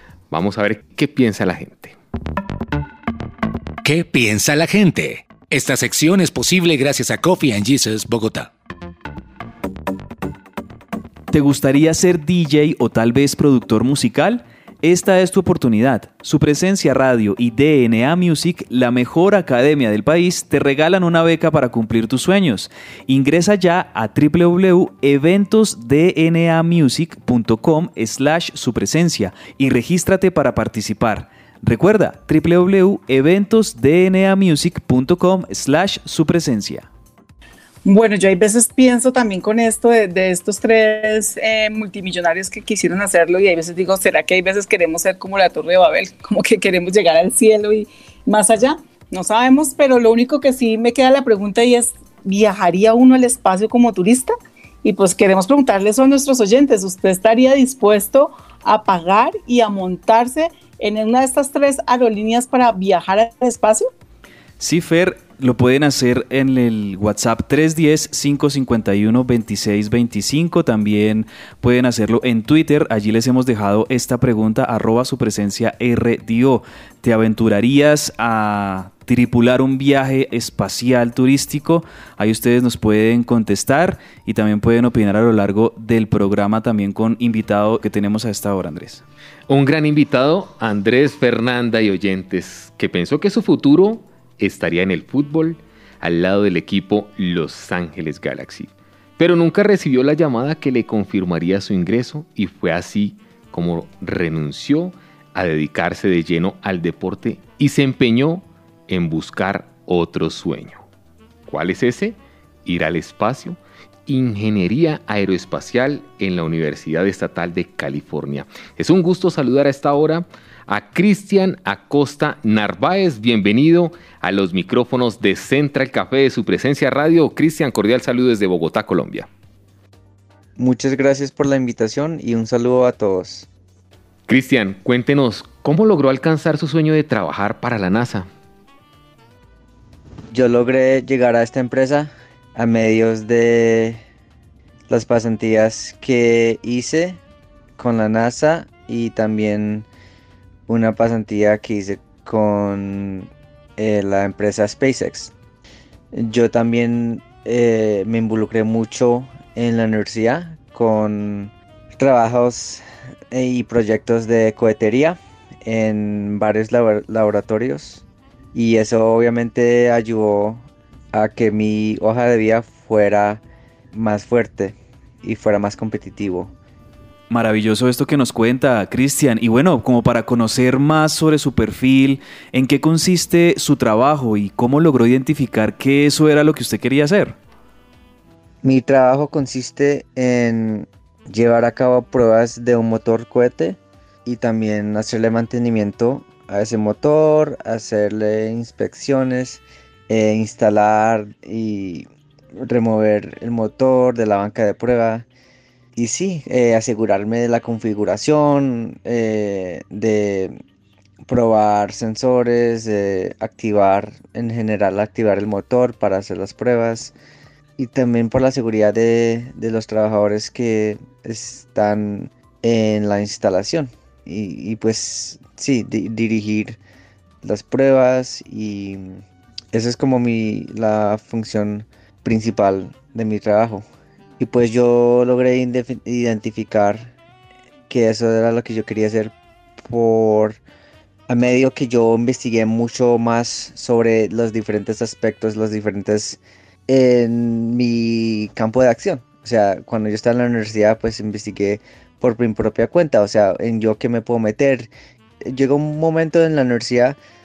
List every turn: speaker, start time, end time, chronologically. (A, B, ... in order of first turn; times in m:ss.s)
0:00.3-0:02.0 A
0:03.8-0:08.5 B
0:11.3-0:36.9 C
0:37.8-1:03.9 D
1:04.6-1:29.0 C
1:29.5-1:50.8 A
1:51.5-2:09.3 A
2:10.6-2:13.5 E
2:14.3-2:18.3 A
2:20.3-2:24.0 E
2:24.9-2:27.2 E
2:27.8-2:29.9 E
2:30.7-2:35.3 E
2:36.1-2:56.5 E
2:57.3-3:07.4 C
3:08.6-3:25.3 E
3:26.0-3:30.6 E
3:31.2-3:37.1 E
3:37.8-3:46.8 E
3:47.4-3:53.8 E
3:54.4-3:57.1 E
3:57.9-4:00.6 E
4:01.3-4:14.9 E
4:15.4-4:17.2 E